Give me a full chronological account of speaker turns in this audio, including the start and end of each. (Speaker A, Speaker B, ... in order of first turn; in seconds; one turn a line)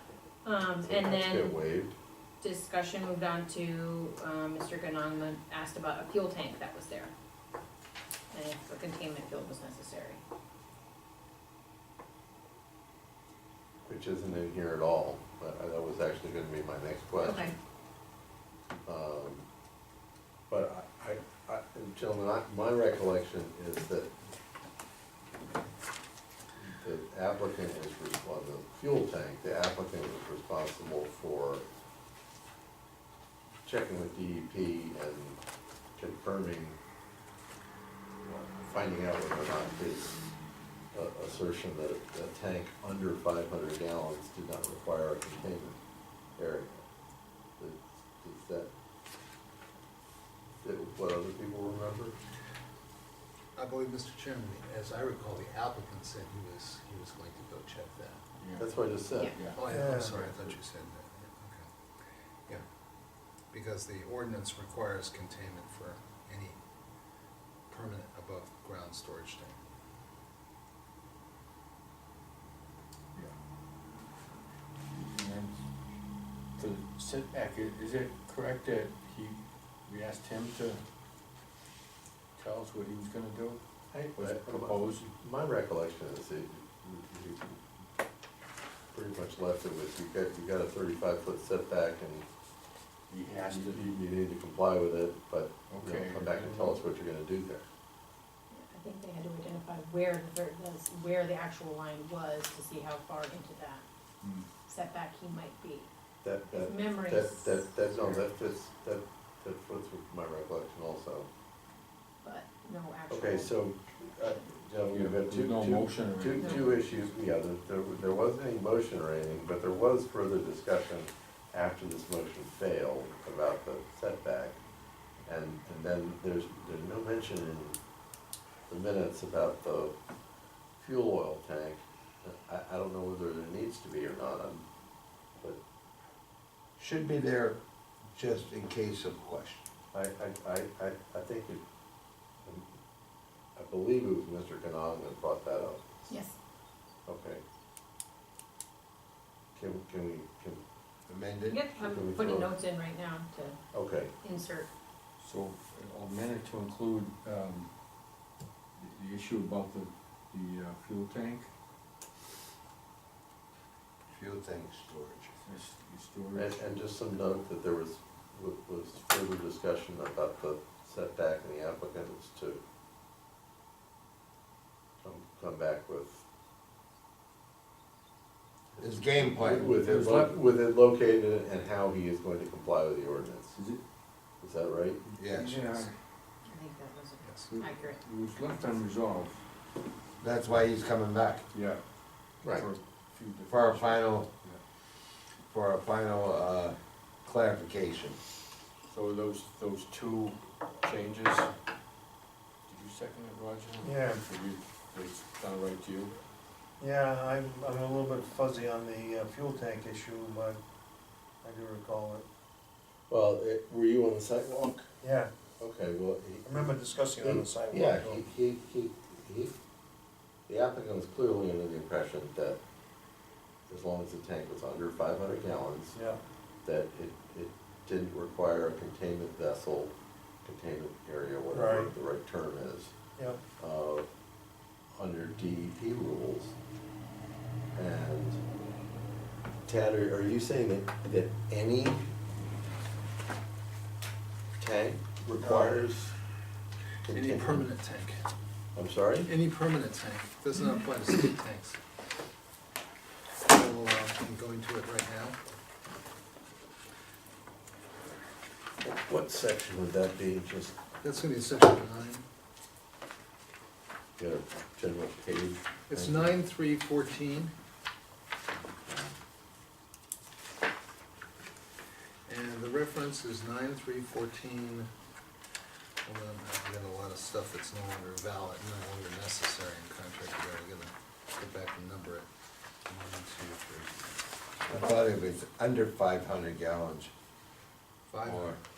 Speaker A: 0.4-1.6
Speaker B: 0.8-1.9
Speaker A: 2.4-7.1
Speaker A: 8.3-10.2
Speaker B: 13.8-17.5
Speaker A: 17.2-17.5
Speaker B: 18.9-19.4
Speaker B: 20.5-24.1
Speaker B: 26.6-31.6
Speaker B: 33.6-35.4
Speaker B: 36.0-36.8
Speaker B: 38.2-40.2
Speaker B: 40.9-45.8
Speaker B: 46.4-46.8
Speaker B: 47.6-48.7
Speaker B: 50.6-52.1
Speaker C: 53.5-58.2
Speaker D: 58.4-58.7
Speaker B: 58.6-59.4
Speaker D: 59.3-59.6
Speaker C: 59.5-61.6
Speaker E: 59.7-60.1
Speaker B: 60.2-60.5
Speaker C: 63.5-66.6
Speaker C: 67.7-69.6
Speaker D: 74.9-75.6
Speaker D: 76.6-80.8
Speaker D: 82.3-83.6
Speaker B: 83.9-87.6
Speaker D: 84.1-85.1
Speaker B: 88.9-92.2
Speaker D: 93.1-94.0
Speaker B: 93.4-97.6
Speaker D: 95.7-96.8
Speaker A: 98.5-103.8
Speaker D: 104.2-104.5
Speaker A: 104.7-105.9
Speaker B: 106.2-111.3
Speaker A: 106.5-108.2
Speaker A: 112.2-114.4
Speaker B: 113.1-124.6
Speaker D: 114.8-117.1
Speaker A: 116.4-116.7
Speaker B: 125.2-127.8
Speaker B: 128.7-129.9
Speaker B: 130.8-134.6
Speaker F: 136.8-137.6
Speaker F: 138.1-139.7
Speaker B: 139.9-141.6
Speaker B: 143.5-145.8
Speaker A: 146.1-146.3
Speaker B: 147.1-147.4
Speaker B: 149.5-150.6
Speaker F: 151.1-151.7
Speaker A: 151.5-153.6
Speaker B: 151.8-152.5
Speaker B: 153.7-154.1
Speaker A: 154.2-154.7
Speaker D: 155.2-157.7
Speaker D: 158.8-161.5
Speaker F: 164.1-165.4
Speaker D: 165.4-166.8
Speaker B: 166.3-172.6
Speaker B: 175.0-176.2
Speaker B: 178.7-183.6
Speaker F: 178.8-180.2
Speaker D: 179.5-180.3
Speaker D: 183.5-183.8
Speaker B: 184.4-185.2
Speaker F: 185.2-185.9
Speaker D: 185.2-185.9
Speaker A: 186.4-188.0
Speaker C: 187.2-187.5
Speaker D: 187.5-189.4
Speaker F: 190.2-191.5
Speaker D: 191.5-191.8
Speaker B: 192.4-192.7
Speaker D: 192.4-194.6
Speaker F: 193.5-194.3
Speaker F: 195.4-198.2
Speaker D: 198.9-201.5
Speaker D: 202.7-206.2
Speaker E: 203.8-204.2
Speaker E: 206.8-210.6
Speaker E: 211.4-212.2
Speaker B: 213.1-214.9
Speaker E: 215.0-215.3
Speaker B: 215.6-219.5
Speaker E: 216.4-218.2
Speaker B: 220.5-222.6
Speaker B: 223.7-225.9
Speaker E: 225.9-226.2
Speaker B: 226.6-229.9
Speaker B: 230.4-232.9
Speaker E: 231.5-231.9
Speaker E: 233.2-233.4
Speaker B: 233.6-234.1
Speaker B: 234.9-236.5
Speaker B: 237.7-238.4
Speaker B: 239.6-242.1
Speaker B: 244.6-246.1
Speaker C: 245.4-245.8
Speaker B: 247.0-247.7
Speaker C: 247.1-248.3
Speaker B: 248.7-249.3
Speaker C: 249.2-251.8
Speaker C: 253.4-255.4
Speaker B: 258.8-260.7
Speaker C: 261.0-262.2
Speaker B: 264.2-266.4
Speaker C: 265.9-267.5
Speaker C: 272.3-274.9
Speaker C: 276.0-282.3
Speaker C: 282.9-283.9
Speaker F: 284.7-287.1
Speaker C: 288.1-288.6
Speaker F: 288.2-288.6